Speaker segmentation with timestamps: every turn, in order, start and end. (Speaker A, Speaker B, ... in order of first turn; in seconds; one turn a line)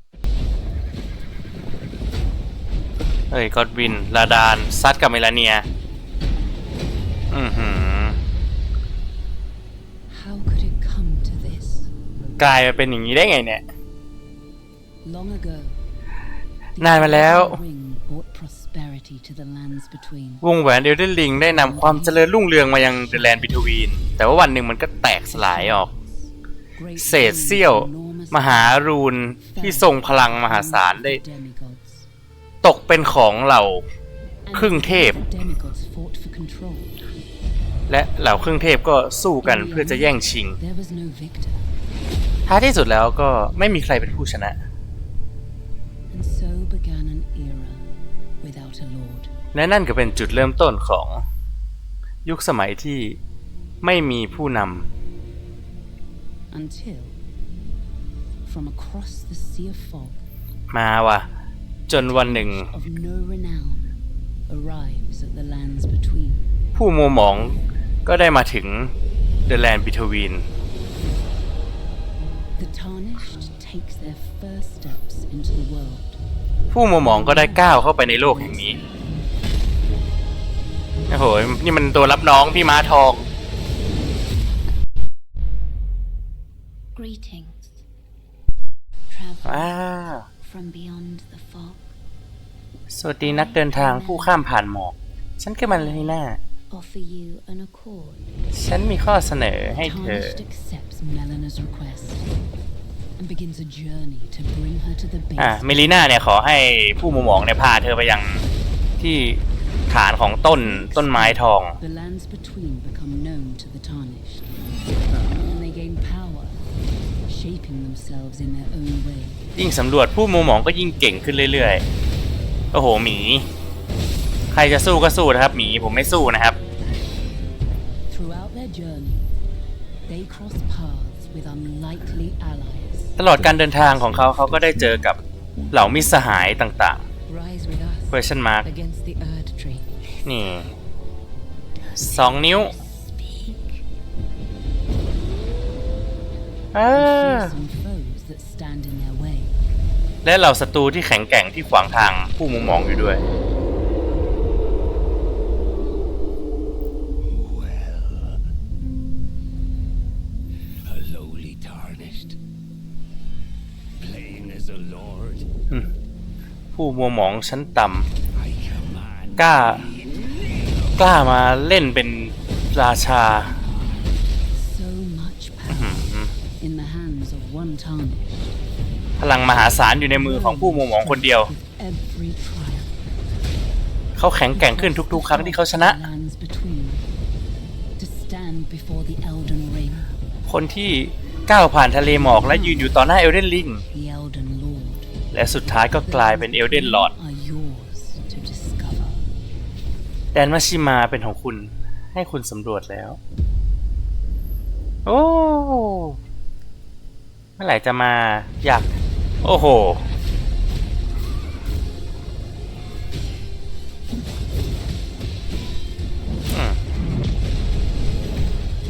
Speaker A: 3.3-5.6
Speaker A: 7.3-8.2
Speaker B: 10.1-11.9
Speaker A: 12.4-13.6
Speaker B: 15.0-15.8
Speaker B: 16.8-20.4
Speaker A: 16.8-17.6
Speaker A: 20.4-25.9
Speaker B: 21.3-23.7
Speaker B: 25.3-32.1
Speaker A: 27.0-31.2
Speaker A: 32.6-33.8
Speaker B: 34.5-37.0
Speaker A: 34.5-35.2
Speaker A: 37.9-40.6
Speaker B: 39.4-41.7
Speaker A: 42.5-44.6
Speaker B: 46.1-47.9
Speaker B: 48.4-49.3
Speaker A: 49.5-51.2
Speaker A: 52.2-53.2
Speaker A: 53.8-54.9
Speaker B: 56.5-57.2
Speaker B: 58.4-60.2
Speaker A: 60.7-61.3
Speaker A: 61.9-62.7
Speaker B: 61.9-63.9
Speaker B: 64.5-66.5
Speaker A: 66.7-68.9
Speaker A: 69.5-70.4
Speaker B: 72.6-76.2
Speaker A: 76.7-78.8
Speaker B: 77.0-78.8
Speaker A: 81.1-83.3
Speaker B: 86.9-87.8
Speaker B: 89.1-91.9
Speaker A: 89.4-90.2
Speaker A: 92.9-96.4
Speaker B: 93.2-94.5
Speaker B: 95.7-96.2
Speaker B: 96.7-98.3
Speaker A: 98.5-100.4
Speaker B: 99.7-102.3
Speaker B: 103.2-106.2
Speaker A: 105.4-108.4
Speaker A: 109.0-111.8
Speaker B: 110.5-114.5
Speaker B: 115.1-116.6
Speaker B: 117.2-119.4
Speaker A: 119.5-121.8
Speaker A: 122.7-123.5
Speaker A: 124.5-126.6
Speaker B: 128.1-129.2
Speaker B: 130.1-135.2
Speaker A: 133.2-135.2
Speaker A: 135.7-137.0
Speaker B: 137.2-140.6
Speaker A: 138.1-138.7
Speaker A: 140.2-140.7
Speaker B: 141.8-143.8
Speaker A: 141.9-142.7
Speaker A: 146.7-147.6
Speaker B: 146.9-149.6
Speaker A: 150.2-153.2
Speaker C: 157.3-158.4
Speaker C: 160.8-162.4
Speaker C: 164.0-165.5
Speaker A: 166.7-168.1
Speaker C: 168.3-170.9
Speaker A: 169.4-169.8
Speaker A: 171.0-173.6
Speaker B: 174.5-178.5
Speaker A: 175.7-176.3
Speaker A: 179.2-181.5
Speaker B: 180.1-182.9
Speaker A: 184.2-186.0
Speaker B: 184.5-187.1
Speaker B: 188.0-190.1
Speaker A: 190.5-193.8
Speaker B: 192.2-192.9
Speaker B: 193.9-199.2
Speaker A: 195.3-197.1
Speaker A: 200.3-203.2
Speaker A: 205.1-206.2
Speaker A: 207.6-208.9
Speaker A: 209.4-210.0
Speaker A: 216.5-216.8